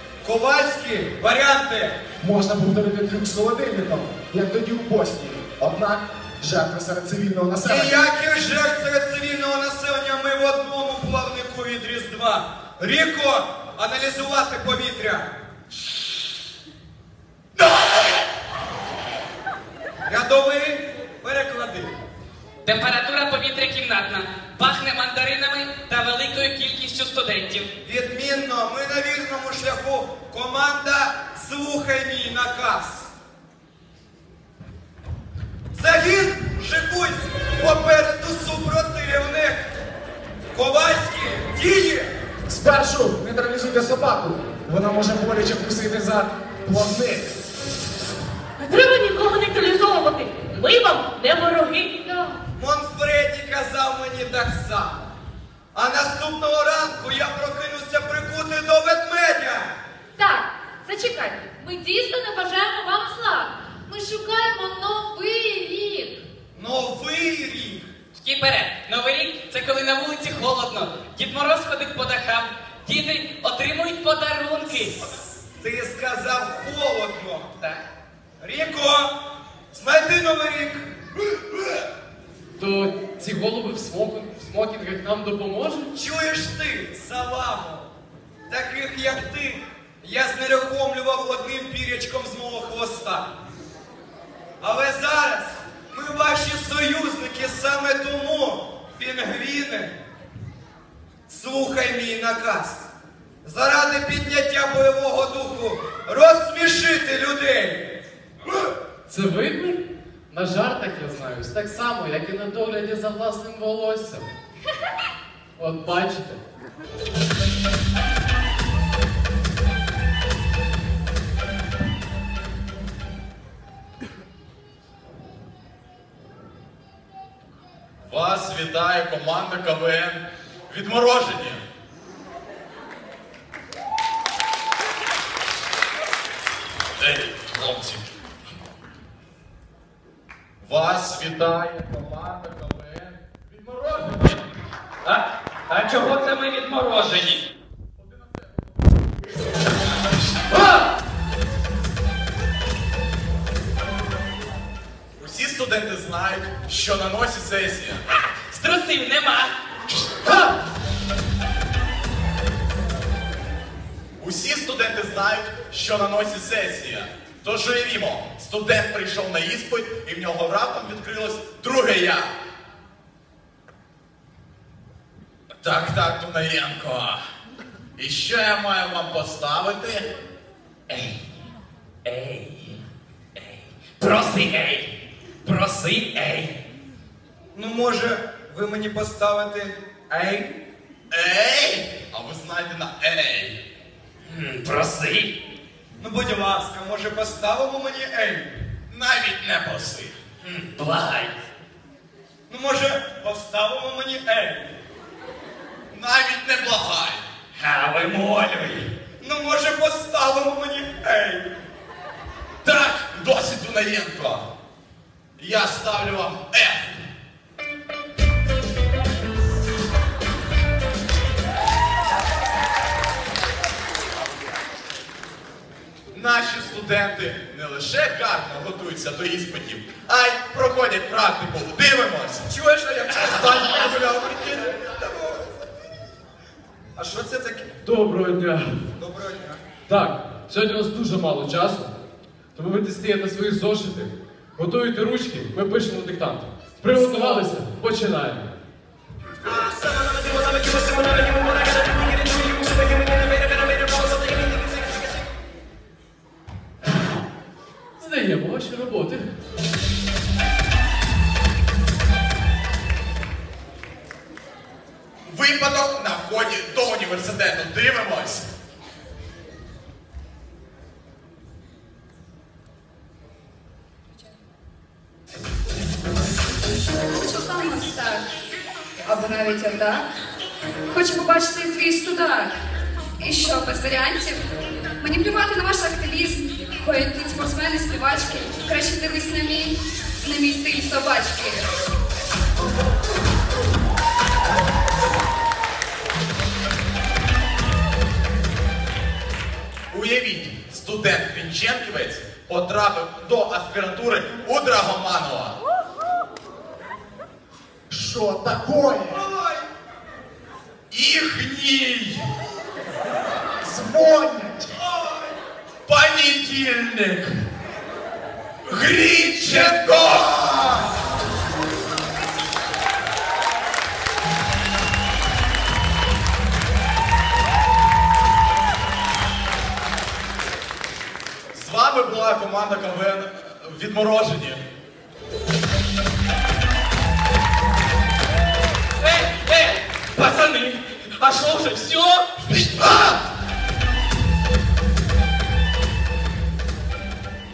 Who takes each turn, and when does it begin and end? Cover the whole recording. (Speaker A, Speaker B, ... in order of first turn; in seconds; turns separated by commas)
Speaker A: 0.2-2.0, Speaker B: 2.2-8.0, Speaker A: 7.6-15.3, Speaker A: 20.1-21.9, Speaker C: 22.6-27.7, Speaker A: 27.8-33.1, Speaker A: 35.7-39.6, Speaker A: 40.5-42.1, Speaker B: 42.5-47.5, Speaker D: 48.6-51.9, Speaker E: 52.0-52.4, Speaker A: 52.5-55.0, Speaker A: 55.7-59.7, Speaker E: 60.2-66.2, Speaker A: 66.5-67.9, Speaker C: 68.2-75.0, Speaker A: 75.6-77.5, Speaker A: 78.4-79.1, Speaker A: 79.7-80.9, Speaker F: 82.6-85.9, Speaker A: 85.9-87.9, Speaker A: 88.5-93.3, Speaker A: 94.6-99.9, Speaker A: 101.3-102.9, Speaker A: 103.4-108.0, Speaker F: 109.1-114.3, Speaker F: 115.6-116.4, Speaker G: 128.0-131.6, Speaker G: 137.0-138.0, Speaker G: 140.6-144.4, Speaker C: 145.0-147.4, Speaker G: 148.0-148.7, Speaker G: 155.2-158.2, Speaker C: 158.3-159.5, Speaker G: 164.2-172.3, Speaker G: 175.6-177.2, Speaker G: 177.9-180.1, Speaker C: 180.9-181.2, Speaker C: 182.0-182.8, Speaker C: 183.3-184.9, Speaker C: 185.4-186.5, Speaker A: 187.5-190.6, Speaker G: 191.1-193.6, Speaker C: 194.2-195.3, Speaker A: 196.0-198.5, Speaker G: 198.9-200.2, Speaker C: 200.4-201.3, Speaker A: 202.5-204.8, Speaker G: 205.9-207.2, Speaker C: 207.5-208.9, Speaker A: 209.2-211.5, Speaker G: 212.6-214.4, Speaker G: 215.4-216.9, Speaker G: 226.1-232.5, Speaker A: 232.5-235.5, Speaker G: 233.2-234.8, Speaker A: 236.9-237.7, Speaker F: 237.8-238.8, Speaker A: 239.0-239.6, Speaker F: 239.9-241.9, Speaker F: 242.5-248.5, Speaker B: 249.9-254.8, Speaker F: 258.0-259.3, Speaker G: 265.2-268.4, Speaker H: 277.1-278.3, Speaker H: 279.0-280.1, Speaker H: 280.9-282.6, Speaker H: 283.2-284.4, Speaker H: 285.0-291.7, Speaker G: 299.9-305.6, Speaker B: 307.9-309.2, Speaker A: 309.1-309.6, Speaker G: 310.9-312.2, Speaker B: 313.6-314.7, Speaker A: 314.9-315.3, Speaker G: 315.9-317.3, Speaker G: 318.6-320.9, Speaker G: 331.5-334.6, Speaker C: 339.0-342.6, Speaker G: 342.5-343.2